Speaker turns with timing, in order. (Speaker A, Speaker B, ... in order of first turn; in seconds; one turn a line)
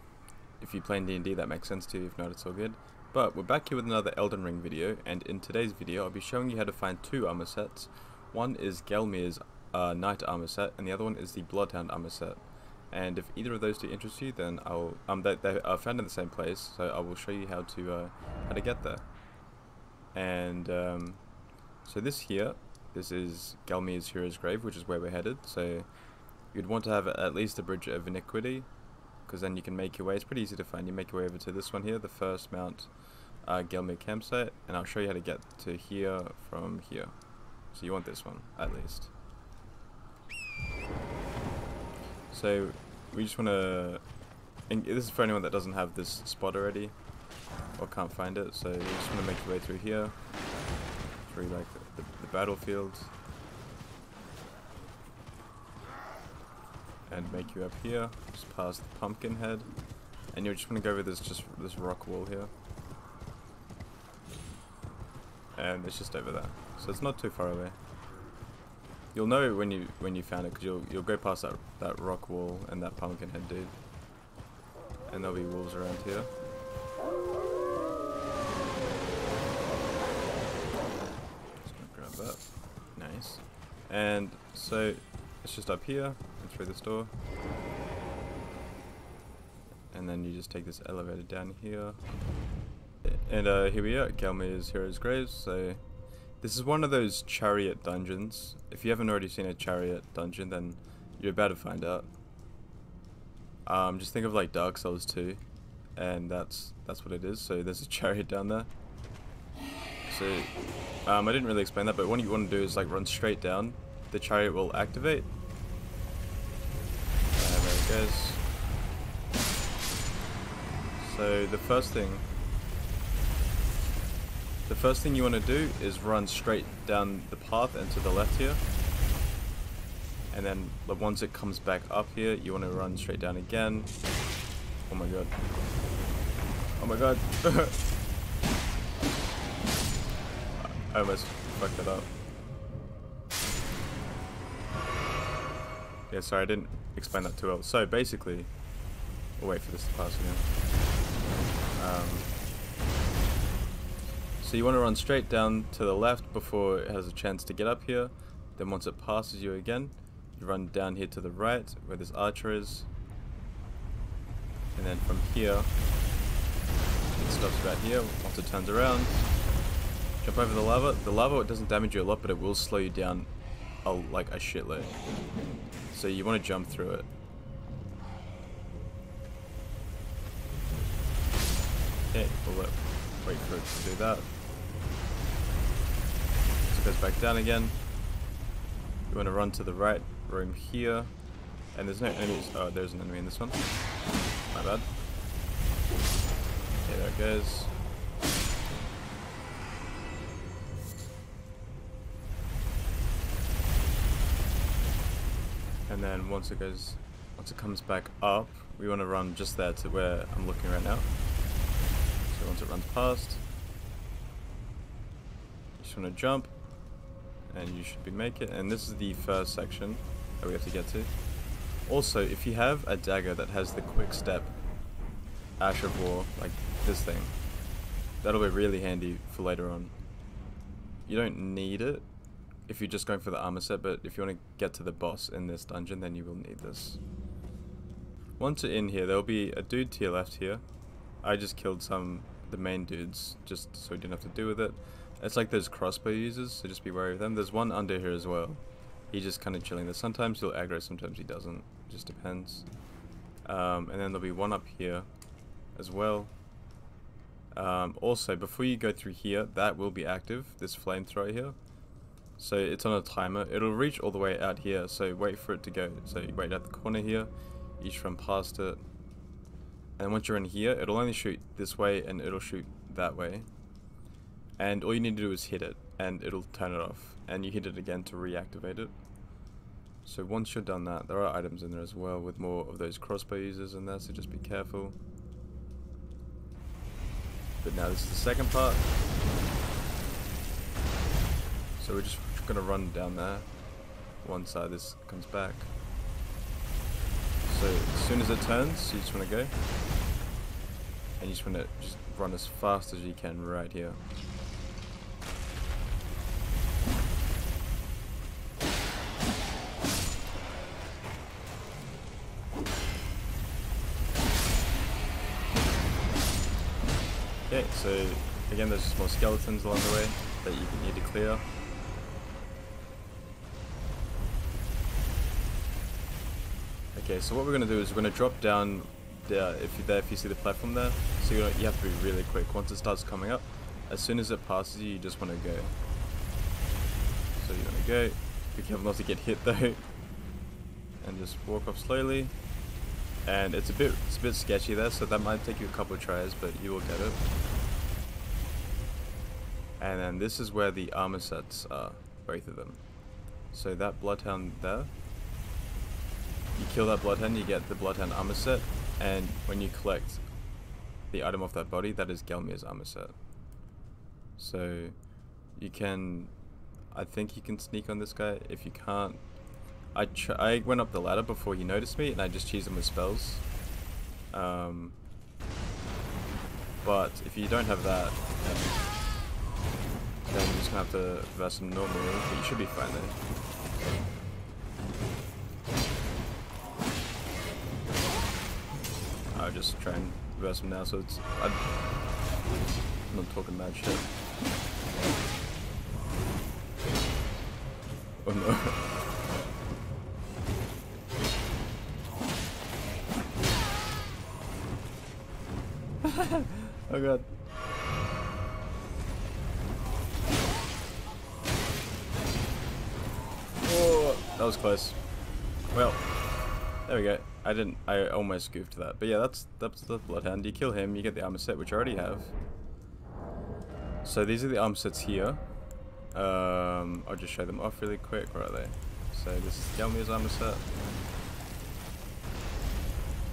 Speaker A: 0.6-12.4
Speaker A: 12.9-19.1
Speaker A: 20.1-21.2
Speaker A: 21.8-25.9
Speaker A: 26.5-28.7
Speaker A: 29.3-32.9
Speaker A: 33.4-37.1
Speaker A: 37.7-39.1
Speaker A: 42.3-44.0
Speaker A: 44.7-46.9
Speaker A: 47.8-50.1
Speaker A: 51.2-53.1
Speaker A: 57.1-59.7
Speaker A: 60.3-62.5
Speaker A: 65.6-67.8
Speaker A: 69.1-73.8
Speaker A: 75.1-76.3
Speaker A: 81.6-87.1
Speaker A: 89.9-92.0
Speaker A: 93.0-95.8
Speaker A: 96.4-102.1
Speaker A: 103.7-105.4
Speaker A: 106.0-108.7
Speaker A: 110.1-110.5
Speaker A: 111.1-115.3
Speaker A: 117.3-118.4
Speaker A: 121.0-122.3
Speaker A: 124.7-128.6
Speaker A: 130.3-133.9
Speaker A: 134.9-135.3
Speaker A: 136.8-137.8
Speaker A: 140.6-142.1
Speaker A: 146.1-148.5
Speaker A: 149.4-150.5
Speaker A: 151.8-152.3
Speaker A: 154.4-162.9
Speaker A: 164.8-165.7
Speaker A: 167.2-169.2
Speaker A: 170.2-173.3
Speaker A: 173.8-175.0
Speaker A: 175.9-177.1
Speaker A: 182.1-184.3
Speaker A: 186.7-187.8
Speaker A: 189.1-191.1
Speaker A: 191.7-193.7
Speaker A: 194.5-194.9
Speaker A: 196.8-197.7
Speaker A: 205.9-211.1
Speaker A: 212.3-213.4
Speaker A: 215.8-216.5
Speaker A: 217.5-221.1
Speaker A: 221.8-224.5
Speaker A: 225.6-227.4
Speaker A: 228.2-229.9
Speaker A: 231.1-232.1
Speaker A: 232.7-237.0
Speaker A: 238.4-240.6
Speaker A: 241.2-252.7
Speaker A: 253.4-255.1
Speaker A: 255.8-256.3
Speaker A: 257.5-261.6
Speaker A: 262.4-268.8
Speaker A: 270.0-273.5
Speaker A: 274.6-278.9
Speaker A: 280.1-285.0
Speaker A: 287.6-288.9
Speaker A: 291.8-293.5
Speaker A: 294.2-295.7
Speaker A: 297.4-299.5
Speaker A: 301.2-304.0
Speaker A: 317.5-321.4
Speaker A: 326.9-335.8
Speaker A: 337.4-339.8
Speaker A: 341.0-342.3
Speaker A: 343.2-347.2
Speaker A: 349.8-352.8
Speaker A: 353.5-354.9
Speaker A: 356.6-360.2
Speaker A: 361.1-363.1
Speaker A: 364.4-365.0
Speaker A: 365.6-366.3
Speaker A: 366.9-369.2
Speaker A: 369.9-373.4
Speaker A: 374.3-375.0
Speaker A: 376.8-378.8
Speaker A: 380.2-383.2
Speaker A: 389.3-391.6
Speaker A: 393.1-394.1
Speaker A: 398.2-398.9
Speaker A: 406.0-407.3
Speaker A: 413.6-415.0
Speaker A: 415.7-416.1
Speaker A: 416.9-422.3
Speaker A: 424.0-425.4
Speaker A: 426.1-430.6